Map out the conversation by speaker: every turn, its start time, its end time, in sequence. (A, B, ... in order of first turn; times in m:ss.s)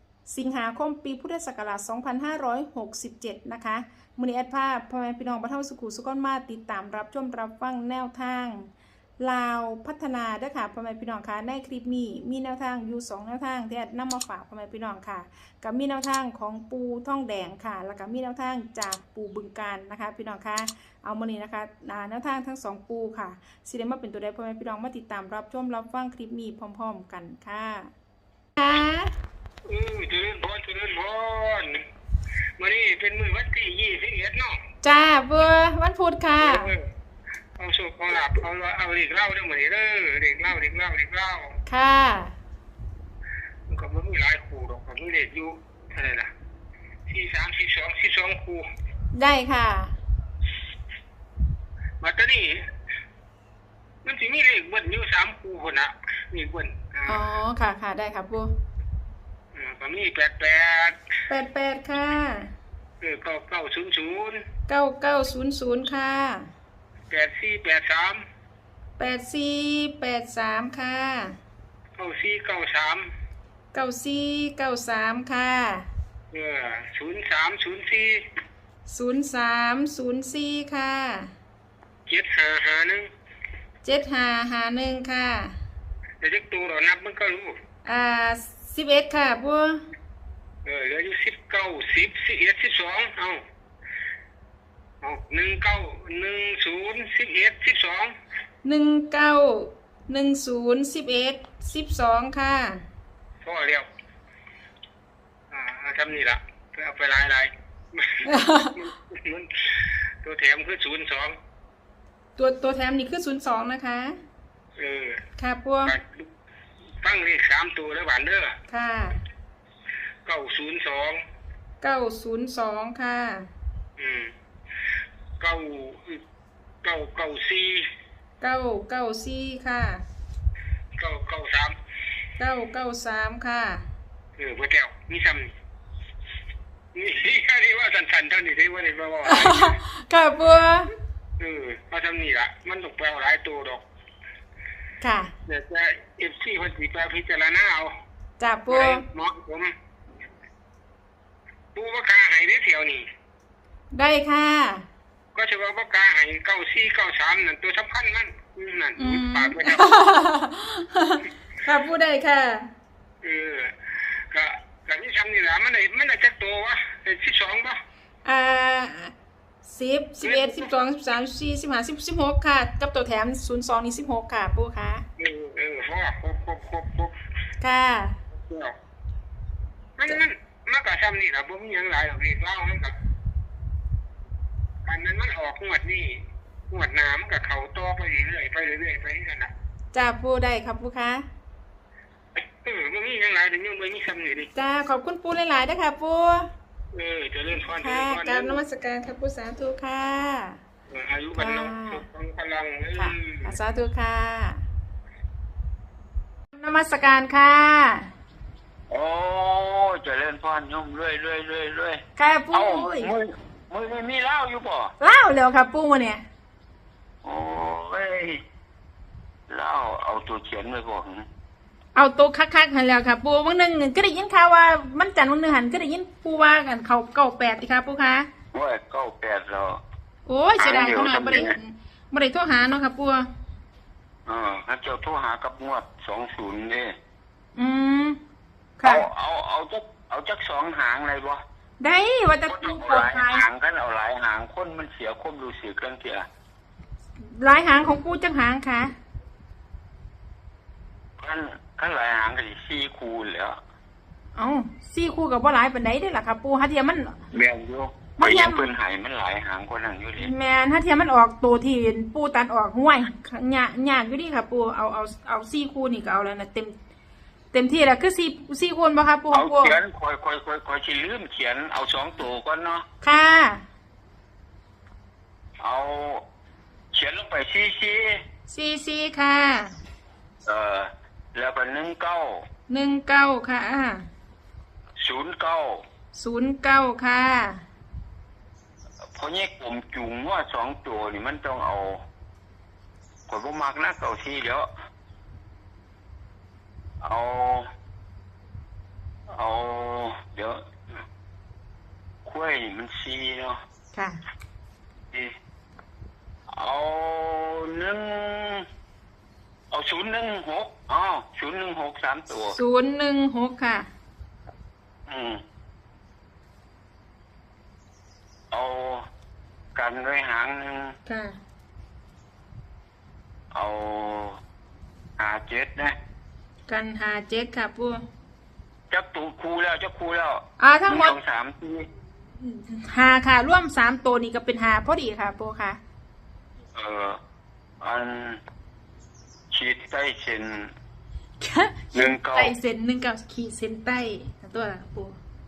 0:00.3-0:27.9 A
0:28.6-0:29.2 A
0:29.7-0:31.8 B
0:32.6-0:34.6 B
0:34.8-0:36.7 A
0:36.4-0:36.9 B
0:37.6-0:41.6 B
0:41.7-0:42.3 A
0:43.7-0:46.3 B
0:47.1-0:48.7 B
0:49.1-0:50.0 A
0:52.0-0:52.6 B
0:54.0-0:57.2 B
0:57.1-0:58.5 A
0:59.5-1:01.0 B
1:01.3-1:02.5 A
1:03.0-1:04.4 B
1:04.7-1:06.5 A
1:07.1-1:08.2 B
1:09.0-1:11.4 A
1:12.0-1:13.1 B
1:13.7-1:15.9 A
1:16.3-1:18.2 B
1:18.9-1:21.3 A
1:22.1-1:23.1 B
1:23.8-1:25.6 A
1:26.2-1:27.6 B
1:27.8-1:29.8 A
1:30.6-1:33.4 B
1:35.0-1:38.2 B
1:38.6-1:42.8 A
1:43.4-1:43.9 B
1:45.5-1:51.4 B
1:48.2-1:48.8 A
1:52.4-1:54.2 A
1:54.8-1:55.2 B
1:55.4-1:56.0 A
1:55.9-1:56.3 B
1:57.0-1:58.6 B
1:58.7-1:59.2 A
2:00.3-2:01.2 B
2:01.8-2:03.5 A
2:04.0-2:04.3 B
2:05.4-2:06.2 B
2:06.8-2:07.9 B
2:08.4-2:10.0 A
2:11.0-2:11.8 B
2:12.4-2:13.9 A
2:14.4-2:15.5 B
2:16.9-2:19.8 B
2:19.3-2:20.9 A
2:21.4-2:23.8 B
2:25.0-2:25.3 A
2:25.5-2:27.9 B
2:28.4-2:29.0 A
2:28.7-2:29.7 B
2:31.8-2:33.1 B
2:33.9-2:34.8 A
2:35.4-2:39.9 B
2:39.0-2:42.7 A
2:43.2-2:43.8 B
2:44.3-2:47.8 B
2:48.2-2:49.1 A
2:49.6-2:55.1 A
2:50.2-2:50.7 B
2:55.2-2:57.2 B
2:57.6-2:58.2 A
2:58.3-2:58.8 B
3:00.0-3:03.0 B
3:04.9-3:06.2 B
3:06.7-3:09.5 B
3:09.9-3:11.2 A
3:12.6-3:14.5 B
3:14.5-3:16.5 A
3:16.9-3:18.6 B
3:17.7-3:20.6 A
3:20.9-3:23.5 B
3:21.4-3:22.0 A
3:23.0-3:24.6 A
3:26.5-3:28.1 A
3:28.9-3:34.9 C
3:32.2-3:33.1 A
3:35.0-3:36.2 A
3:37.2-3:38.4 C
3:39.5-3:41.3 C
3:42.0-3:48.3 A
3:48.5-3:49.8 C
3:50.3-3:53.3 A
3:50.6-3:51.6 C
3:54.3-3:57.0 C
3:57.6-3:58.2 A
3:58.8-3:59.1 A
3:58.8-4:01.4 C
4:01.8-4:03.5 A
4:02.5-4:06.3 C
4:07.2-4:08.9 A
4:11.2-4:13.6 C
4:14.4-4:17.2 A
4:17.3-4:20.3 C
4:18.2-4:18.7 A
4:20.2-4:26.8 A
4:27.5-4:29.8 A
4:29.3-4:32.8 C
4:33.0-4:33.6 A
4:35.6-4:36.2 C
4:36.9-4:38.2 C
4:38.5-4:39.8 A
4:40.5-4:42.4 C
4:42.7-4:44.1 A
4:45.0-4:45.8 C
4:46.1-4:47.6 A
4:49.0-4:52.0 C
4:53.3-4:54.7 C
4:57.0-4:57.7 C
4:59.3-5:00.6 C
5:02.2-5:03.6 C
5:06.5-5:08.7 C
5:09.7-5:12.6 C
5:12.5-5:13.9 A
5:15.1-5:15.4 C
5:18.5-5:19.0 C
5:19.8-5:21.0 C
5:21.1-5:21.4 A
5:23.5-5:24.4 C
5:25.2-5:26.0 C
5:26.7-5:28.0 A
5:28.9-5:31.9 C
5:30.6-5:31.2 A
5:32.4-5:35.8 A
5:36.8-5:37.2 C
5:37.8-5:38.4 C
5:39.5-5:40.7 C
5:41.4-5:45.2 A
5:41.9-5:42.6 C